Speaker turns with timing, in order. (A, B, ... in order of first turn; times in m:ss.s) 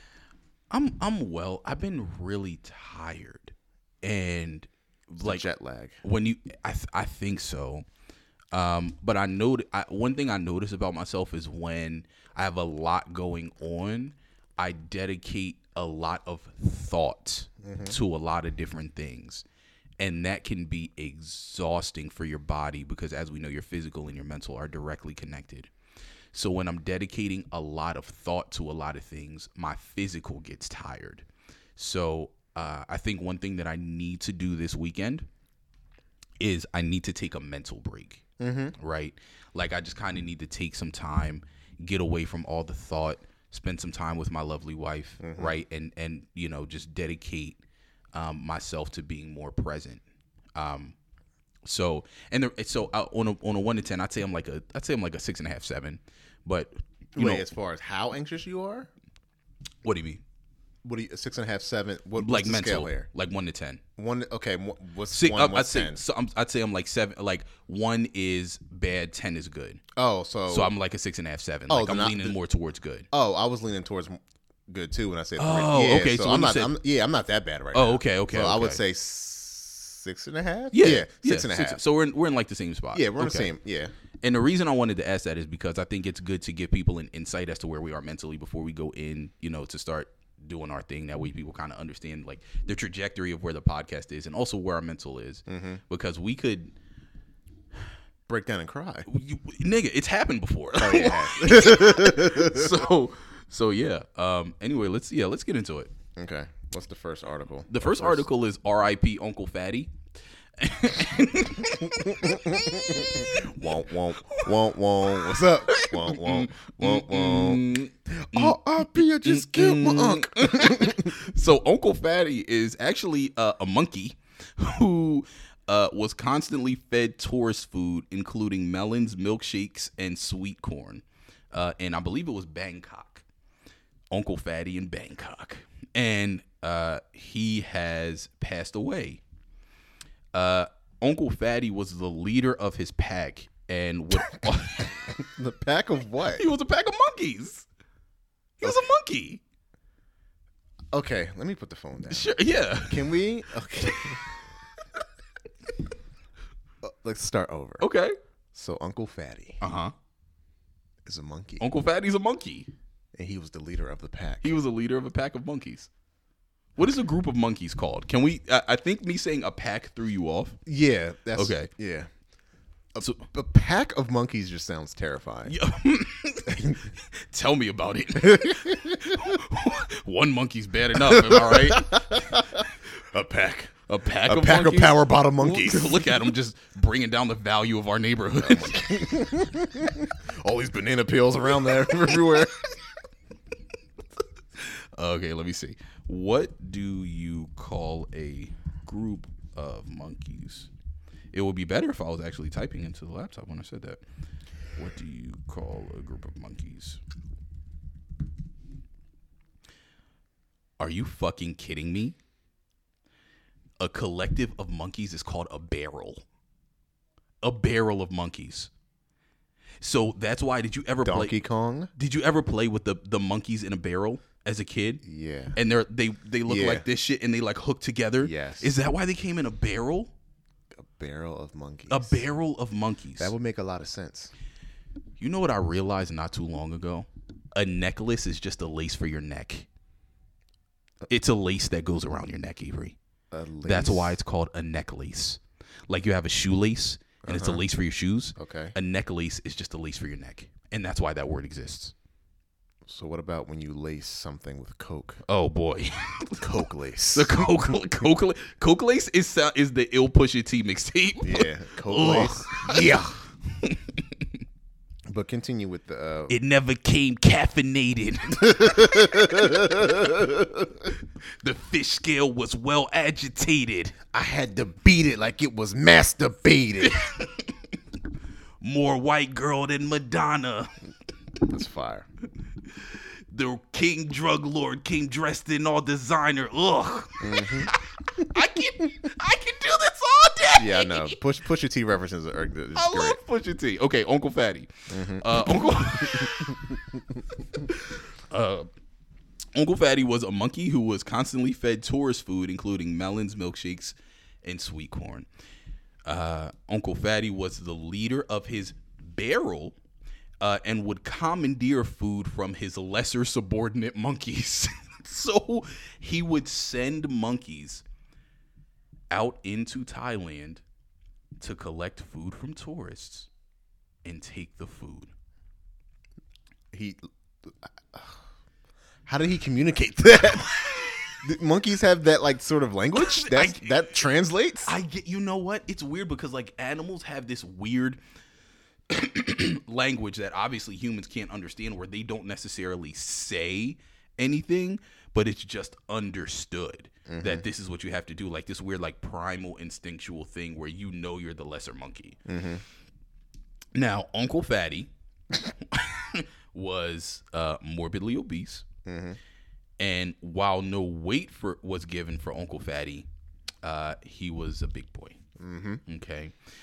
0:00.7-0:05.4 A
0:05.2-0:06.0 B
0:06.0-0:07.8 A
0:08.5-0:19.4 A
0:17.6-0:18.0 B
0:20.0-0:25.7 A
0:26.3-0:31.2 A
0:31.8-0:35.3 A
0:36.4-0:38.2 A
0:38.4-0:38.7 B
0:38.8-0:47.6 A
0:45.2-0:45.6 B
0:48.1-0:50.0 A
0:50.6-0:51.0 A
0:51.6-0:57.4 A
0:57.2-0:58.9 B
0:59.8-1:00.2 A
1:00.8-1:03.1 B
1:02.2-1:03.8 A
1:04.0-1:06.0 B
1:05.1-1:09.8 A
1:10.0-1:10.7 B
1:10.5-1:13.1 A
1:11.7-1:12.4 B
1:13.1-1:21.8 B
1:15.4-1:16.8 A
1:17.7-1:18.8 A
1:20.7-1:23.5 A
1:22.9-1:23.9 B
1:24.2-1:36.7 A
1:35.5-1:35.8 B
1:38.3-1:39.1 B
1:39.1-1:45.9 A
1:40.8-1:42.8 B
1:46.2-1:48.3 B
1:47.7-1:49.9 A
1:50.6-1:53.7 A
1:51.8-2:01.1 B
1:54.3-1:54.6 A
1:55.2-2:13.2 A
2:14.1-2:19.2 A
2:20.3-2:24.9 A
2:24.8-2:26.5 B
2:26.4-2:27.7 A
2:28.6-2:29.4 A
2:30.9-2:32.3 B
2:32.1-2:33.1 A
2:32.8-2:34.2 B
2:36.8-2:37.9 B
2:37.8-2:38.2 A
2:38.5-2:39.6 B
2:39.6-2:39.9 A
2:41.0-2:41.7 B
2:41.6-2:42.7 A
2:43.2-2:44.6 B
2:44.4-2:45.9 A
2:46.8-2:50.6 A
2:50.7-2:52.1 B
2:51.4-2:51.7 A
2:52.9-2:55.6 B
2:55.5-3:02.4 A
2:56.5-2:56.8 B
2:58.2-2:59.3 B
3:01.0-3:06.3 B
3:03.9-3:09.1 A
3:08.4-3:12.6 B
3:14.6-3:20.7 A
3:21.3-3:24.0 A
3:24.8-3:27.0 A
3:30.8-3:32.2 A
3:33.8-3:36.2 A
3:37.4-3:38.7 A
3:39.8-3:41.4 A
3:41.0-3:41.9 B
3:42.0-3:45.0 A
3:45.0-3:45.6 B
3:45.6-3:50.1 A
3:46.5-3:46.9 B
3:48.2-3:48.7 B
3:50.8-3:52.2 B
3:51.9-3:53.3 A
3:53.2-3:54.3 B
3:55.2-3:59.7 A
4:01.1-4:03.0 A
4:03.3-4:04.2 B
4:03.6-4:11.9 A
4:07.2-4:07.6 B
4:08.4-4:08.8 B
4:12.9-4:15.2 B
4:15.3-4:16.5 A
4:16.4-4:17.7 B
4:17.1-4:24.3 A
4:21.2-4:23.2 B
4:25.1-4:26.4 B
4:26.3-4:29.4 A
4:28.4-4:30.9 B
4:31.4-4:34.0 A
4:34.1-4:37.0 B
4:36.8-4:37.5 A
4:38.6-4:40.7 A
4:41.5-4:42.1 B
4:42.8-4:51.2 A
4:47.2-4:47.7 B
4:50.6-4:53.2 B
4:52.8-4:56.7 A
4:54.9-4:56.6 B
4:57.6-4:58.7 A
4:59.6-5:05.3 A
5:06.1-5:09.8 A
5:10.4-5:17.8 A
5:19.1-5:20.6 A
5:21.4-5:23.3 A
5:24.0-5:25.1 A
5:26.7-5:28.2 B
5:29.1-5:34.7 B
5:33.0-5:33.8 A
5:34.7-5:38.0 A
5:38.9-5:52.2 A
5:47.1-5:47.4 B
5:52.3-5:52.6 B
5:53.8-5:54.9 A
5:55.5-5:58.6 A
5:58.9-5:59.2 B
5:59.8-6:03.1 A
6:03.6-6:05.2 A
6:05.4-6:05.8 B
6:05.9-6:06.3 A